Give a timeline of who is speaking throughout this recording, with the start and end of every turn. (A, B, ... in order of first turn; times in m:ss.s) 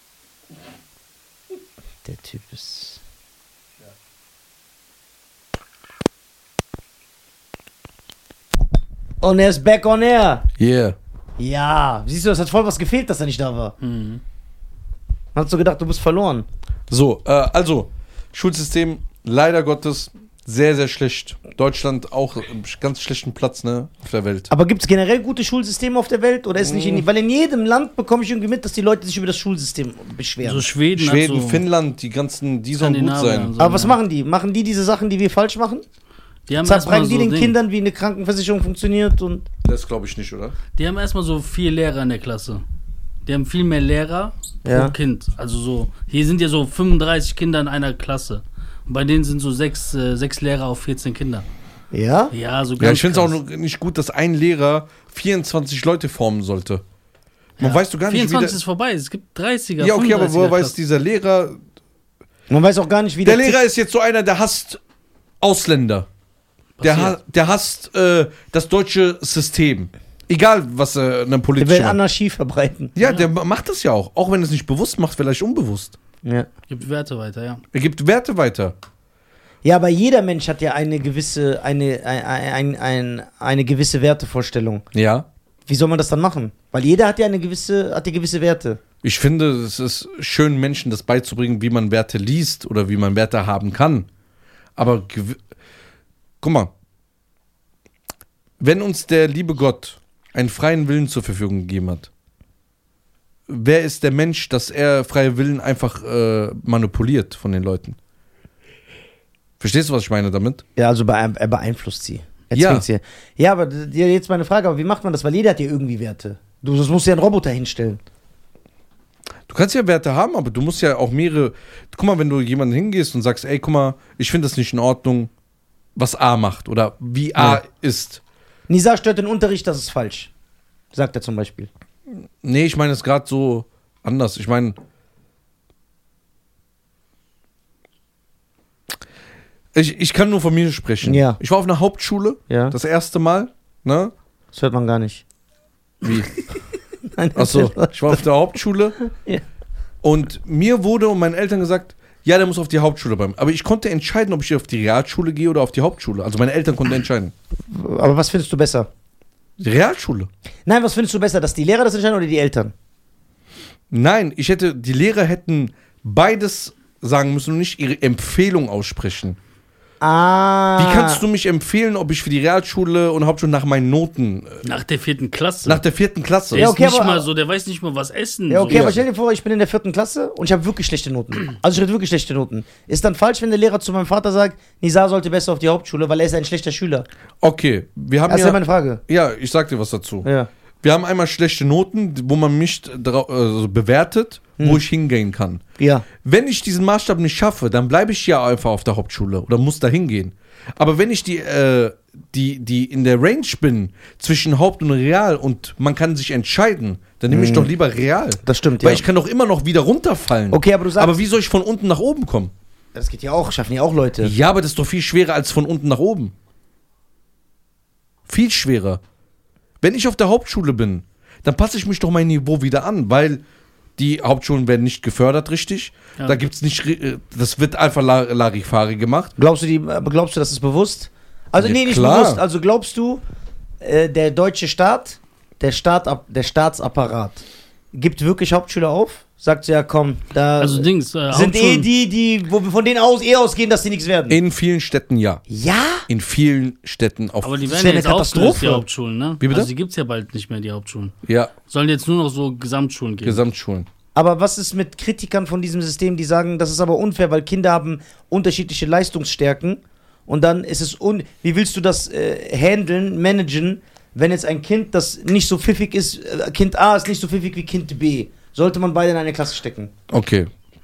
0:02.0-0:03.0 A
0:09.2-0:10.5 A
0:10.6-0:11.0 B
0:11.4-0:13.7 A
0:13.8-0:14.2 C
0:15.4-0:16.5 A
0:16.9-0:24.5 B
0:24.5-0:30.7 A
0:26.6-0:27.1 B
0:30.4-0:31.6 C
0:31.0-0:33.5 B
0:32.8-0:34.0 C
0:33.6-0:35.8 A
0:36.5-0:37.6 C
0:36.6-0:39.5 A
0:39.6-0:40.6 B
0:40.8-0:42.6 C
0:43.3-0:51.5 C
0:44.6-0:45.0 A
0:51.9-0:52.3 A
0:52.3-0:53.4 C
0:52.8-0:56.8 B
0:57.6-0:58.6 B
0:57.6-1:00.7 C
0:59.8-1:01.6 B
1:02.5-1:03.6 A
1:03.2-1:04.8 B
1:05.4-1:06.1 B
1:06.8-1:07.2 C
1:06.8-1:12.0 B
1:11.6-1:12.9 A
1:13.0-1:16.0 B
1:13.0-1:13.3 C
1:16.7-1:17.6 C
1:17.7-1:18.8 B
1:19.6-1:24.8 A
1:24.9-1:25.3 B
1:25.7-1:28.8 A
1:29.0-1:34.1 B
1:34.8-1:35.4 B
1:36.4-1:36.7 B
1:38.6-1:42.1 B
1:43.5-1:48.0 B
1:49.6-1:50.6 B
1:50.8-1:58.0 A
1:52.5-1:52.8 B
1:59.5-2:05.3 B
2:06.0-2:08.2 B
2:08.7-2:10.3 A
2:10.9-2:11.7 A
2:12.4-2:14.8 B
2:19.7-2:24.1 B
2:21.0-2:21.4 A
2:22.5-2:22.8 A
2:24.5-2:25.2 A
2:26.0-2:26.3 B
2:27.1-2:28.2 A
2:27.4-2:29.0 B
2:29.0-2:29.4 A
2:30.0-2:37.3 B
2:37.7-2:38.9 A
2:39.6-2:40.3 B
2:40.7-2:42.7 A
2:43.9-2:49.4 B
2:50.0-2:51.2 A
2:50.8-2:54.6 B
2:54.6-2:55.8 C
2:55.6-2:56.7 B
2:56.5-2:59.0 C
2:56.6-2:57.2 A
2:58.5-3:07.1 A
2:58.7-2:59.0 B
3:07.4-3:10.3 B
3:08.3-3:09.0 A
3:10.2-3:10.5 A
3:10.8-3:15.6 B
3:15.8-3:16.0 A
3:16.2-3:32.5 B
3:27.3-3:27.7 A
3:28.4-3:29.0 A
3:30.5-3:31.2 A
3:33.0-3:34.3 A
3:34.2-3:36.3 B
3:38.3-3:39.0 B
3:39.8-3:43.4 B
3:44.0-3:49.3 B
3:49.4-3:53.2 A
3:51.6-3:52.4 B
3:53.8-4:04.4 A
4:00.6-4:01.9 C
4:04.3-4:05.4 B
4:05.5-4:06.1 A
4:06.1-4:07.6 B
4:07.4-4:11.2 C
4:07.7-4:08.8 A
4:09.4-4:09.7 B
4:11.3-4:11.5 B
4:11.7-4:13.4 C
4:13.2-4:13.9 B
4:14.2-4:29.9 A
4:30.1-4:30.5 B